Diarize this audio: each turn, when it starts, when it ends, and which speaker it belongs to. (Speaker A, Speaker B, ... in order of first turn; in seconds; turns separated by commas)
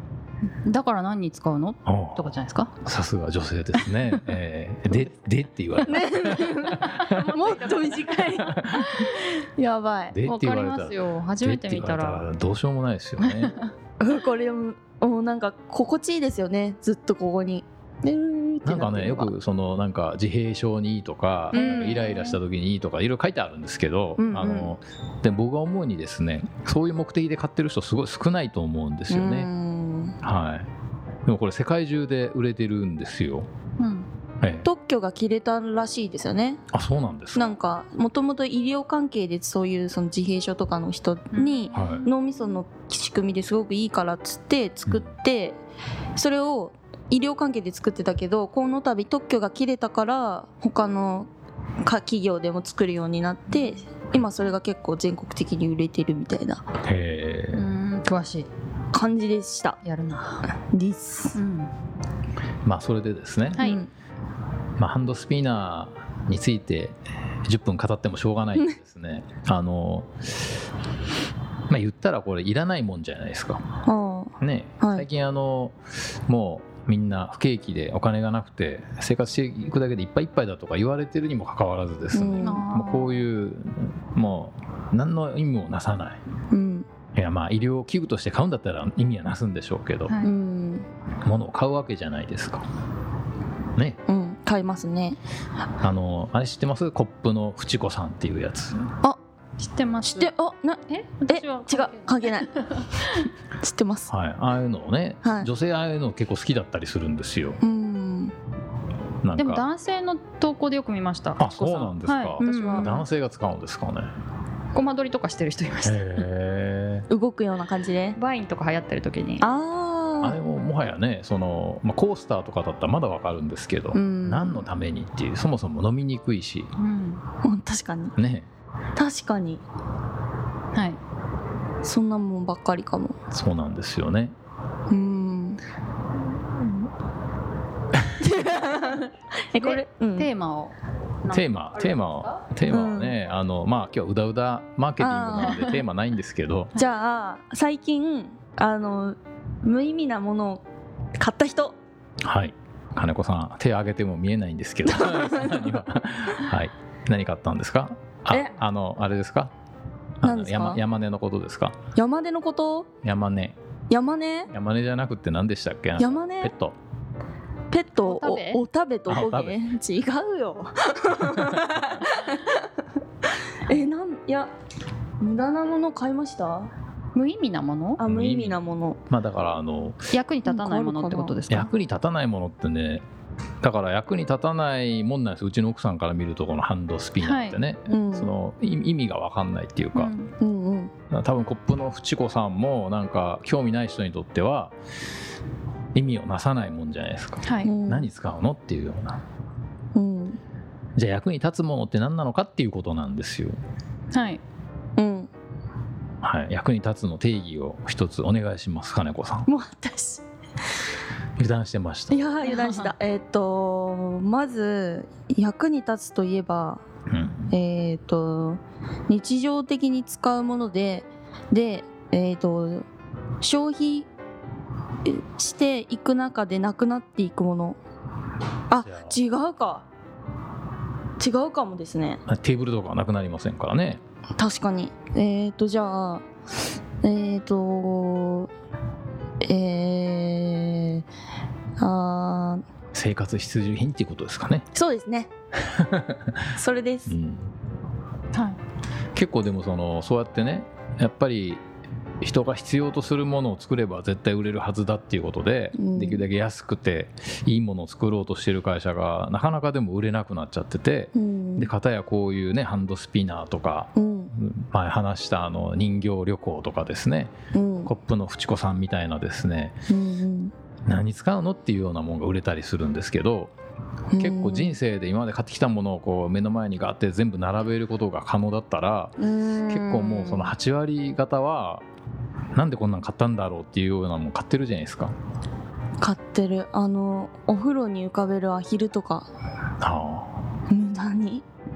Speaker A: 0.6-2.7, Speaker B: 1.9-2.3, Speaker B: 2.8-8.9, Speaker C: 5.8-10.2, Speaker A: 8.9-9.3, Speaker B: 10.1-13.5, Speaker A: 10.2-12.3, Speaker A: 13.2-13.7, Speaker C: 14.0-19.3, Speaker B: 18.6-29.5, Speaker A: 21.5-22.4, Speaker C: 21.5-22.0, Speaker C: 24.2-24.8, Speaker C: 29.1-30.2, Speaker B: 30.2-30.7, Speaker B: 31.3-33.5, Speaker A: 33.8-34.1, Speaker B: 34.4-34.7, Speaker C: 34.6-36.6, Speaker B: 36.7-37.5, Speaker C: 37.4-45.6, Speaker A: 41.3-42.1, Speaker B: 41.7-42.1, Speaker C: 46.2-51.3, Speaker C: 51.8-56.6, Speaker B: 56.8-57.7, Speaker A: 57.5-58.5, Speaker C: 58.9-59.8, Speaker A: 59.8-60.5, Speaker C: 60.5-61.4, Speaker A: 61.4-61.7, Speaker B: 62.6-63.7, Speaker C: 63.6-63.9, Speaker B: 64.8-70.5, Speaker B: 71.7-73.6, Speaker C: 73.8-75.1, Speaker B: 74.4-86.2, Speaker C: 82.1-82.7, Speaker A: 82.4-83.3, Speaker C: 86.5-86.9, Speaker B: 87.2-90.2, Speaker C: 90.2-90.8, Speaker B: 91.2-92.7, Speaker C: 94.1-95.2, Speaker B: 95.8-98.9, Speaker A: 99.6-100.3, Speaker C: 100.0-102.5, Speaker A: 100.9-103.3, Speaker C: 103.6-104.1, Speaker B: 104.1-107.6, Speaker C: 105.2-105.5, Speaker C: 107.6-108.3, Speaker B: 109.2-109.7, Speaker A: 109.4-113.0, Speaker B: 111.4-114.1, Speaker C: 112.4-113.0, Speaker A: 114.7-116.2, Speaker B: 115.8-117.1, Speaker C: 117.1-118.2, Speaker A: 118.2-119.5, Speaker C: 119.4-120.4, Speaker B: 120.2-126.7, Speaker C: 123.9-124.7, Speaker A: 126.8-127.2, Speaker C: 127.4-128.2, Speaker B: 128.2-128.5, Speaker C: 129.0-129.6, Speaker A: 130.7-131.0, Speaker C: 131.8-133.2, Speaker B: 133.3-134.3, Speaker C: 134.9-135.6, Speaker C: 138.2-140.3, Speaker A: 139.6-142.4, Speaker B: 141.3-146.7, Speaker C: 142.7-143.2, Speaker C: 145.0-145.7, Speaker A: 145.5-145.8, Speaker C: 146.8-150.6, Speaker C: 151.2-151.8, Speaker B: 152.2-159.5, Speaker C: 155.0-155.5, Speaker B: 160.2-161.8, Speaker C: 160.2-160.8, Speaker C: 161.9-162.9, Speaker B: 163.0-163.6, Speaker C: 163.9-164.5, Speaker B: 164.5-166.8, Speaker C: 166.0-166.5, Speaker C: 167.7-172.7, Speaker A: 168.1-168.6, Speaker B: 169.1-169.6, Speaker B: 171.3-171.7, Speaker C: 173.6-174.5, Speaker C: 175.2-176.7, Speaker A: 177.2-178.0, Speaker C: 178.0-179.0, Speaker B: 178.0-180.1, Speaker A: 180.1-181.7, Speaker C: 180.4-181.3, Speaker B: 181.5-183.1, Speaker B: 183.6-190.1, Speaker A: 187.2-187.6, Speaker C: 187.9-188.3, Speaker A: 189.9-190.3, Speaker C: 190.4-190.9, Speaker B: 191.1-194.7, Speaker B: 195.9-199.2, Speaker A: 197.4-197.8, Speaker C: 197.6-198.1, Speaker C: 199.9-200.4, Speaker B: 201.0-203.6, Speaker A: 204.1-204.4, Speaker C: 205.0-205.3, Speaker B: 206.2-209.5, Speaker C: 209.5-210.3, Speaker B: 211.4-212.2, Speaker C: 212.1-216.8, Speaker A: 212.4-212.9, Speaker B: 217.1-217.5, Speaker C: 217.5-222.9, Speaker C: 223.4-224.1, Speaker C: 225.0-227.8, Speaker C: 228.7-229.9, Speaker B: 228.8-229.2, Speaker C: 231.2-232.2, Speaker B: 232.3-234.0, Speaker C: 234.4-236.2, Speaker C: 237.0-238.5, Speaker C: 239.4-241.1, Speaker C: 241.8-242.6, Speaker B: 242.9-244.7, Speaker C: 244.7-245.3, Speaker B: 245.7-246.5, Speaker C: 246.5-247.2, Speaker B: 247.1-247.5, Speaker A: 248.3-248.6, Speaker B: 249.2-251.6, Speaker B: 252.2-267.4, Speaker C: 255.8-256.2, Speaker C: 261.1-261.7, Speaker C: 264.0-264.3, Speaker C: 267.5-267.9, Speaker B: 267.9-269.8, Speaker C: 269.9-270.5, Speaker B: 270.9-273.5, Speaker C: 274.1-274.8, Speaker B: 274.2-281.9, Speaker C: 279.2-280.5, Speaker B: 282.6-285.1, Speaker C: 286.0-289.3, Speaker B: 289.8-290.5, Speaker C: 290.7-291.4